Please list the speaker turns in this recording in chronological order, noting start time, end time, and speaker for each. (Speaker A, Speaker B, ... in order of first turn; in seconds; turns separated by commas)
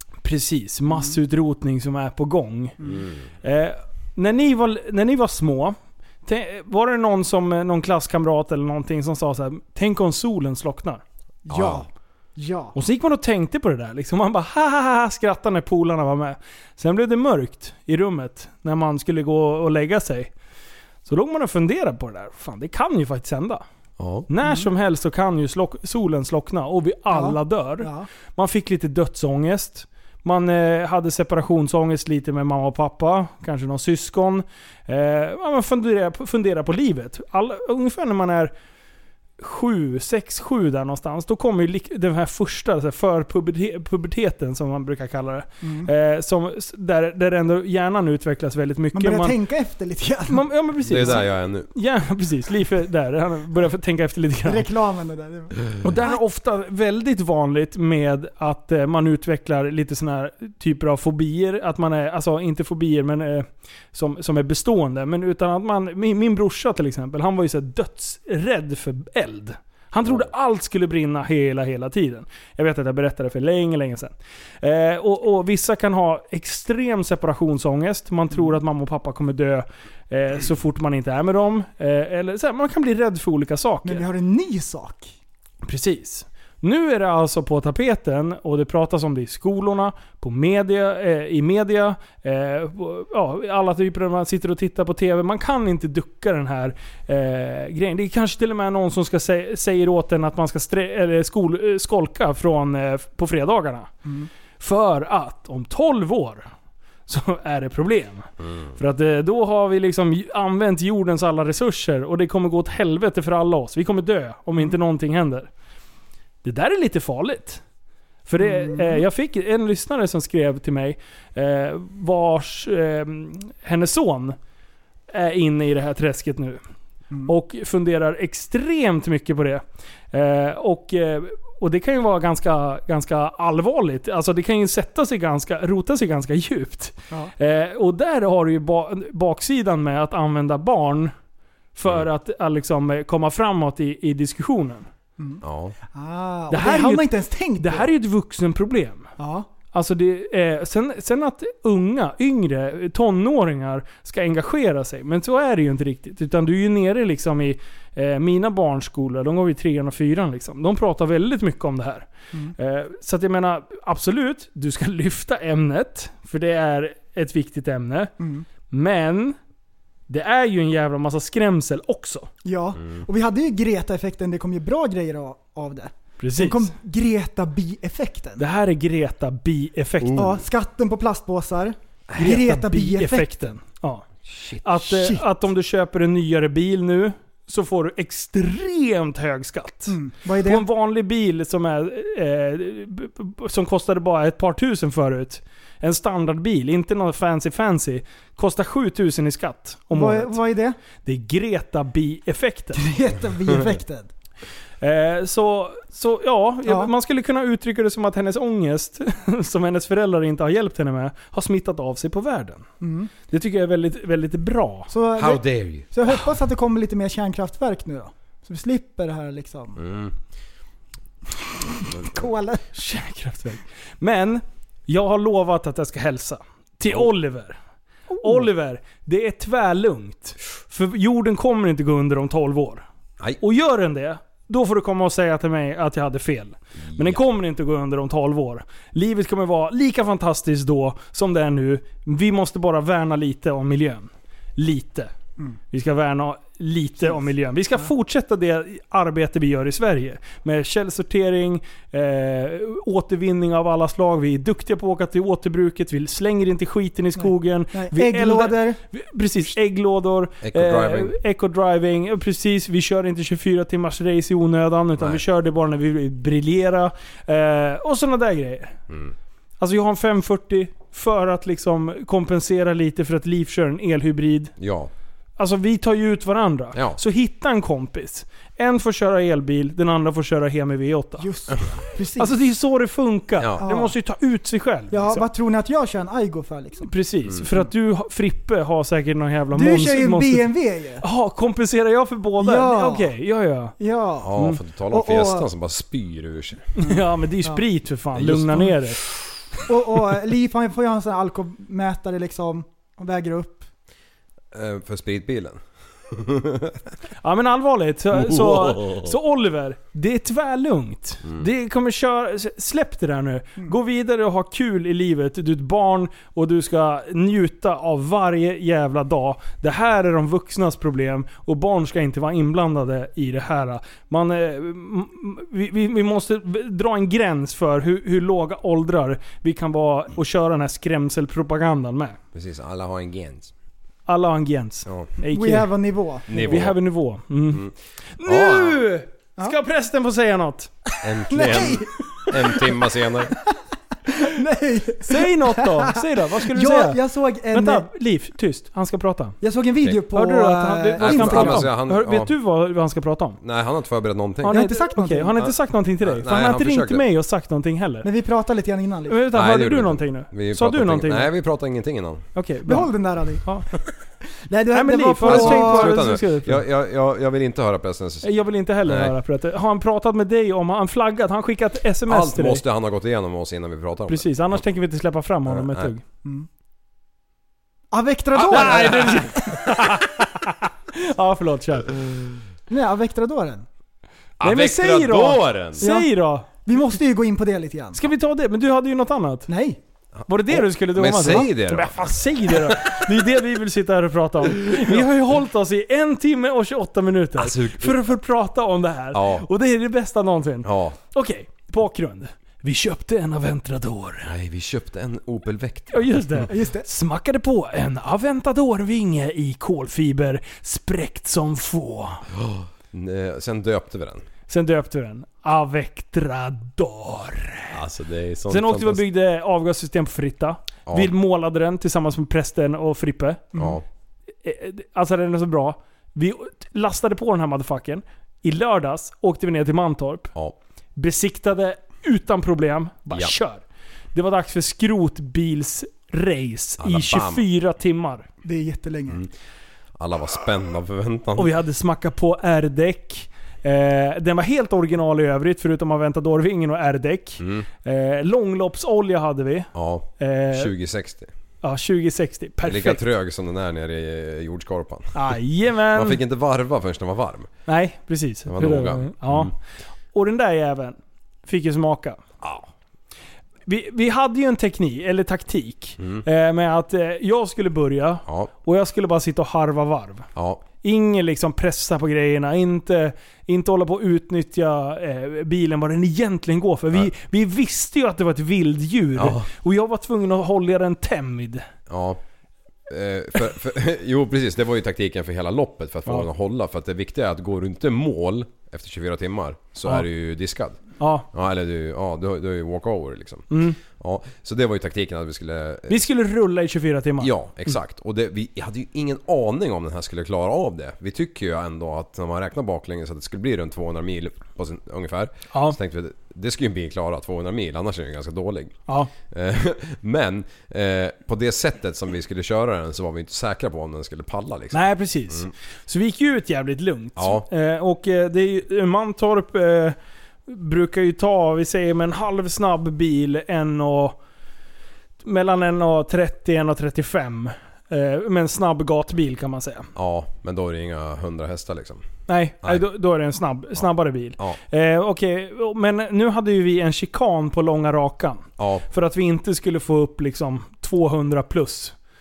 Speaker A: 0.2-2.8, Speaker B: 0.9-1.2, Speaker B: 2.8-3.1, Speaker C: 2.9-3.2, Speaker A: 3.4-5.8, Speaker A: 6.3-11.0, Speaker B: 11.5-12.8, Speaker C: 11.5-11.8, Speaker A: 12.8-20.3, Speaker A: 21.1-23.6, Speaker C: 24.0-24.3, Speaker A: 24.3-38.5, Speaker B: 27.1-28.1, Speaker A: 39.4-49.4, Speaker B: 45.6-45.9, Speaker B: 48.9-50.5, Speaker A: 50.3-54.7, Speaker C: 50.9-51.7, Speaker B: 54.5-56.2, Speaker A: 55.8-84.0, Speaker B: 83.8-85.2, Speaker A: 85.6-103.9, Speaker B: 104.0-104.3, Speaker A: 104.6-106.5, Speaker A: 107.1-115.5, Speaker C: 108.4-108.7, Speaker A: 116.4-117.6, Speaker A: 118.3-124.4, Speaker B: 118.4-119.0, Speaker A: 125.1-126.6, Speaker A: 127.3-141.1, Speaker A: 141.8-144.9, Speaker C: 145.4-145.8, Speaker B: 145.9-147.9, Speaker A: 146.5-149.1, Speaker B: 149.2-149.5, Speaker A: 149.7-162.1, Speaker A: 162.6-168.1, Speaker B: 168.2-168.4, Speaker A: 168.7-169.4, Speaker A: 170.1-172.3, Speaker B: 172.4-178.4, Speaker A: 176.2-176.7, Speaker A: 178.4-180.3, Speaker C: 180.0-180.4, Speaker B: 180.2-183.3, Speaker A: 182.2-184.1, Speaker C: 184.3-184.9, Speaker A: 184.6-200.4, Speaker B: 189.9-190.7, Speaker B: 199.9-200.8, Speaker A: 201.1-202.8, Speaker B: 202.8-204.1, Speaker A: 204.8-212.7, Speaker B: 212.8-213.1, Speaker A: 213.3-214.9, Speaker B: 214.9-219.8, Speaker C: 215.2-215.9, Speaker C: 219.8-220.1, Speaker B: 222.0-222.7, Speaker A: 222.8-227.6, Speaker B: 228.1-228.5, Speaker A: 228.2-232.9, Speaker A: 233.4-245.1, Speaker C: 236.9-237.2, Speaker A: 245.7-268.8, Speaker B: 257.2-258.8, Speaker C: 260.4-261.1, Speaker A: 269.6-274.5, Speaker C: 274.6-274.9, Speaker A: 275.4-281.3, Speaker C: 276.7-277.0, Speaker B: 281.2-282.4, Speaker A: 282.2-285.3, Speaker B: 283.6-283.9, Speaker B: 284.9-286.9, Speaker A: 286.8-293.8, Speaker B: 289.5-291.0, Speaker B: 292.4-293.1, Speaker B: 293.8-294.3, Speaker C: 294.2-296.7, Speaker B: 294.9-295.5, Speaker A: 296.8-299.0, Speaker C: 298.1-299.2, Speaker B: 299.7-303.7, Speaker C: 304.5-305.6, Speaker C: 306.1-306.8, Speaker A: 307.2-332.2, Speaker C: 308.2-309.1, Speaker C: 332.3-333.5, Speaker A: 334.1-335.7, Speaker C: 334.9-335.1, Speaker B: 335.3-336.5, Speaker A: 336.3-337.6, Speaker C: 336.3-336.8, Speaker A: 338.2-340.7, Speaker C: 338.2-338.8, Speaker C: 341.0-343.3, Speaker B: 341.3-342.7, Speaker B: 344.1-347.9, Speaker A: 345.1-347.0, Speaker A: 347.5-349.4, Speaker B: 349.4-351.7, Speaker A: 350.1-353.4, Speaker C: 351.0-352.3, Speaker C: 353.4-354.6, Speaker A: 354.4-358.1, Speaker B: 354.5-355.4, Speaker C: 355.4-357.0, Speaker B: 358.0-359.2, Speaker A: 359.1-361.3, Speaker C: 359.3-362.3, Speaker A: 362.4-363.7, Speaker B: 362.7-363.8, Speaker B: 364.4-366.0, Speaker A: 364.7-366.6, Speaker C: 365.2-368.3, Speaker A: 368.2-372.6, Speaker C: 368.9-369.1, Speaker C: 372.1-374.6, Speaker A: 374.1-376.0, Speaker C: 375.5-375.9, Speaker B: 377.9-379.7, Speaker C: 378.4-379.6, Speaker A: 378.5-382.1, Speaker B: 382.7-383.6, Speaker C: 384.4-385.9, Speaker A: 384.4-386.5, Speaker B: 385.8-388.0, Speaker A: 387.9-389.5, Speaker B: 389.5-389.8, Speaker C: 390.2-392.9, Speaker A: 390.3-404.3, Speaker C: 397.4-398.1, Speaker C: 399.1-399.5, Speaker C: 400.6-401.0, Speaker C: 404.2-406.5, Speaker A: 405.9-412.2, Speaker B: 406.5-406.9, Speaker C: 412.4-414.2, Speaker A: 414.5-417.7, Speaker C: 417.7-419.0, Speaker A: 418.5-423.6, Speaker C: 420.9-421.1, Speaker C: 423.6-423.8, Speaker A: 424.4-430.3, Speaker A: 431.0-433.6, Speaker A: 434.1-438.3, Speaker C: 436.8-437.4, Speaker B: 438.4-439.2, Speaker C: 440.0-441.5, Speaker A: 441.4-450.7, Speaker C: 447.4-447.7, Speaker C: 449.7-451.3, Speaker A: 451.6-453.0, Speaker C: 452.6-455.2, Speaker A: 455.1-456.2, Speaker C: 455.9-457.5, Speaker A: 457.7-459.5, Speaker C: 458.5-459.5, Speaker A: 460.1-462.2, Speaker C: 462.4-462.7, Speaker A: 463.7-470.3, Speaker C: 466.0-466.2, Speaker C: 470.4-470.6, Speaker A: 470.8-481.7, Speaker C: 479.2-479.5, Speaker C: 481.9-482.2, Speaker C: 482.9-496.1, Speaker A: 491.0-491.3, Speaker A: 493.5-493.8, Speaker A: 495.9-497.8, Speaker C: 497.2-515.5, Speaker A: 514.7-520.0, Speaker C: 517.2-517.5, Speaker A: 520.5-524.2, Speaker A: 525.2-529.9, Speaker C: 530.0-532.0, Speaker A: 532.3-542.0, Speaker C: 538.6-538.9